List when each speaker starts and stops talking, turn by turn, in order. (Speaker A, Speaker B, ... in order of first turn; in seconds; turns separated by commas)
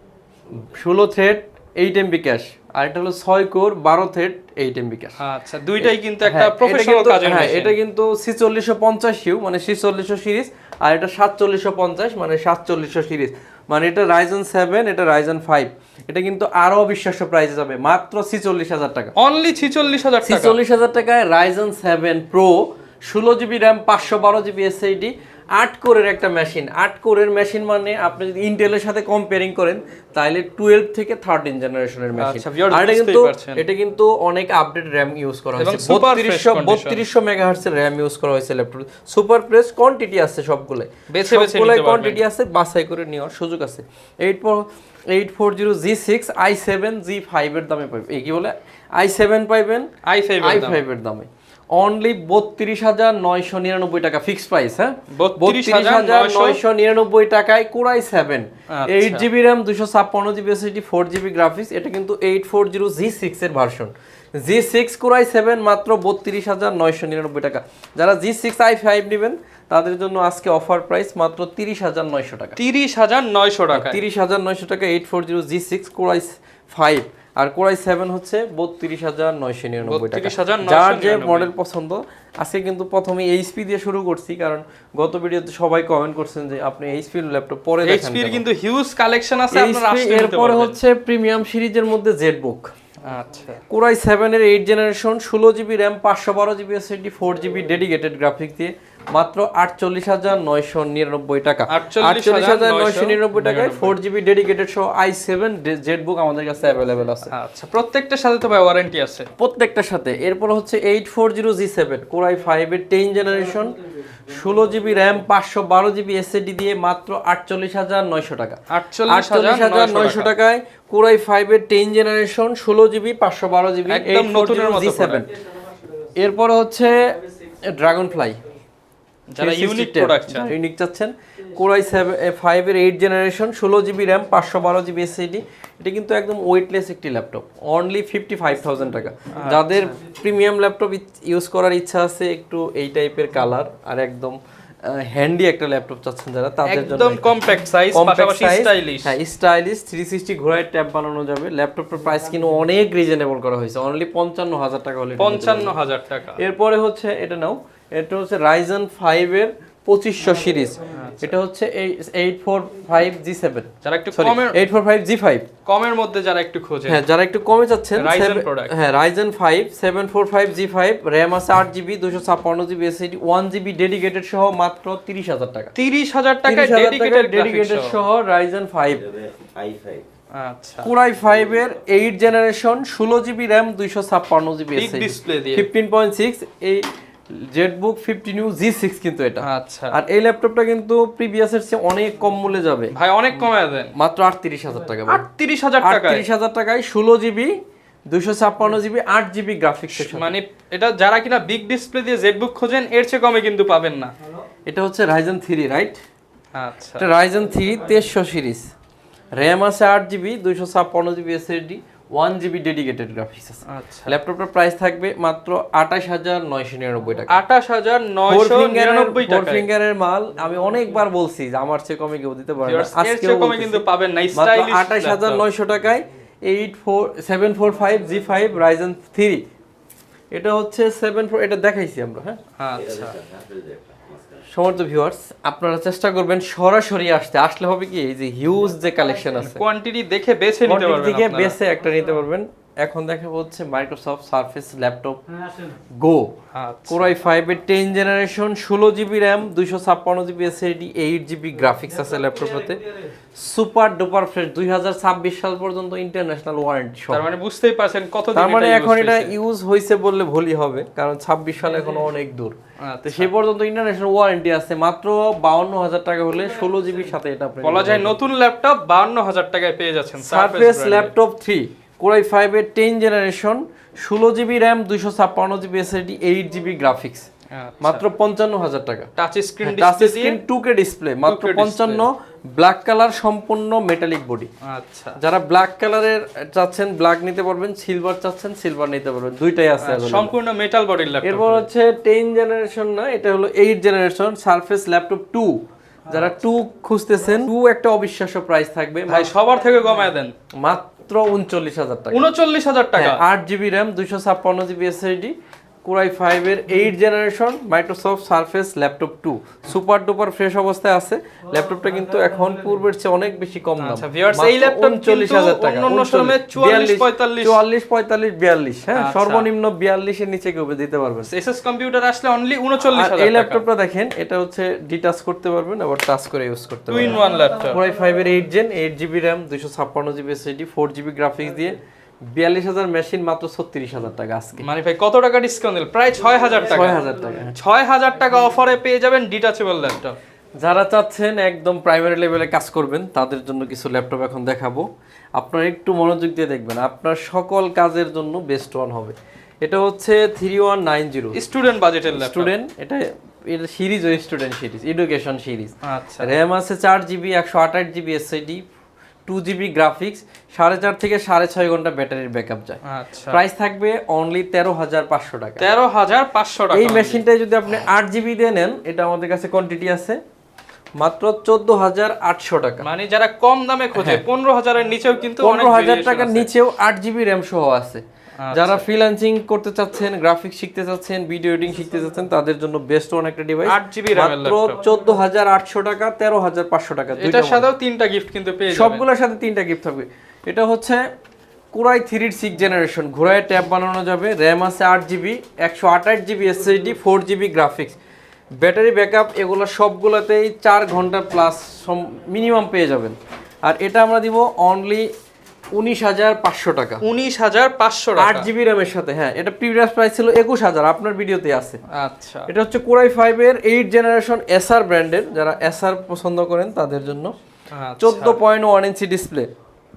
Speaker A: 0.6-5.2, Speaker B: 5.2-7.8, Speaker A: 5.8-19.1, Speaker B: 19.2-20.6, Speaker A: 20.2-49.9, Speaker B: 32.2-33.6, Speaker B: 35.6-37.0, Speaker B: 41.1-42.2, Speaker B: 50.0-50.8, Speaker A: 50.4-72.6, Speaker B: 55.1-56.6, Speaker B: 58.7-59.3, Speaker B: 72.6-74.0, Speaker A: 73.7-88.4, Speaker B: 79.8-81.5, Speaker B: 87.8-90.8, Speaker A: 89.5-92.7, Speaker B: 93.0-93.6, Speaker A: 93.7-107.3, Speaker B: 101.7-104.0, Speaker B: 107.3-109.3, Speaker A: 109.4-125.3, Speaker B: 118.7-120.3, Speaker B: 123.9-125.2, Speaker A: 126.2-128.4, Speaker B: 129.3-130.5, Speaker A: 129.4-147.4, Speaker B: 139.4-139.6, Speaker B: 146.7-149.1, Speaker A: 147.9-155.7, Speaker B: 155.2-156.4, Speaker A: 156.4-165.5, Speaker B: 160.9-161.3, Speaker B: 163.8-164.6, Speaker B: 165.7-167.0, Speaker A: 166.9-175.7, Speaker B: 168.0-168.7, Speaker B: 175.8-178.0, Speaker A: 176.5-179.1, Speaker C: 178.9-180.1, Speaker B: 180.3-180.9, Speaker A: 180.8-192.9, Speaker C: 181.2-181.9, Speaker B: 184.8-185.7, Speaker B: 189.4-190.0, Speaker B: 192.9-193.9, Speaker A: 193.9-195.3, Speaker B: 195.1-196.2, Speaker A: 195.8-200.3, Speaker B: 199.9-204.1, Speaker A: 204.7-206.0, Speaker B: 206.6-207.1, Speaker A: 207.0-208.7, Speaker A: 209.4-217.4, Speaker B: 213.7-214.1, Speaker B: 217.3-219.7, Speaker A: 218.3-229.4, Speaker B: 222.6-225.4, Speaker A: 230.3-232.4, Speaker B: 232.6-233.2, Speaker C: 232.7-234.5, Speaker A: 234.5-239.6, Speaker B: 239.4-241.6, Speaker A: 240.7-245.4, Speaker A: 245.9-246.3, Speaker B: 246.5-247.1, Speaker A: 246.9-252.8, Speaker A: 253.3-257.2, Speaker B: 257.1-259.3, Speaker A: 258.4-268.2, Speaker B: 262.8-263.3, Speaker B: 267.6-271.1, Speaker A: 270.2-277.3, Speaker B: 277.5-278.0, Speaker A: 277.8-279.1, Speaker B: 279.2-280.4, Speaker A: 279.6-284.5, Speaker B: 281.3-282.1, Speaker B: 284.6-285.2, Speaker A: 285.2-290.3, Speaker B: 289.8-291.7, Speaker A: 291.2-299.3, Speaker B: 299.1-300.3, Speaker A: 300.6-302.3, Speaker B: 302.1-303.2, Speaker A: 303.0-321.3, Speaker B: 313.8-317.6, Speaker B: 318.9-319.5, Speaker B: 321.3-323.6, Speaker A: 322.9-331.8, Speaker B: 326.9-327.8, Speaker A: 332.3-334.7, Speaker B: 334.6-337.0, Speaker A: 336.6-337.6, Speaker B: 337.6-340.2, Speaker A: 340.6-351.4, Speaker B: 351.4-352.5, Speaker A: 352.1-358.6, Speaker B: 355.8-356.3, Speaker A: 359.3-362.8, Speaker B: 362.9-363.4, Speaker A: 363.3-365.7, Speaker B: 365.6-367.2, Speaker A: 366.7-370.2, Speaker A: 371.0-372.9, Speaker B: 372.8-376.5, Speaker A: 373.9-374.2, Speaker A: 375.4-387.7, Speaker B: 378.4-378.8, Speaker B: 383.7-384.8, Speaker B: 387.2-389.0, Speaker A: 388.7-391.0, Speaker A: 391.7-398.0, Speaker A: 398.6-405.1, Speaker A: 405.8-407.0, Speaker B: 407.0-408.5, Speaker A: 408.2-411.8, Speaker B: 411.9-412.5, Speaker A: 412.5-417.3, Speaker B: 417.7-418.4, Speaker A: 418.0-419.5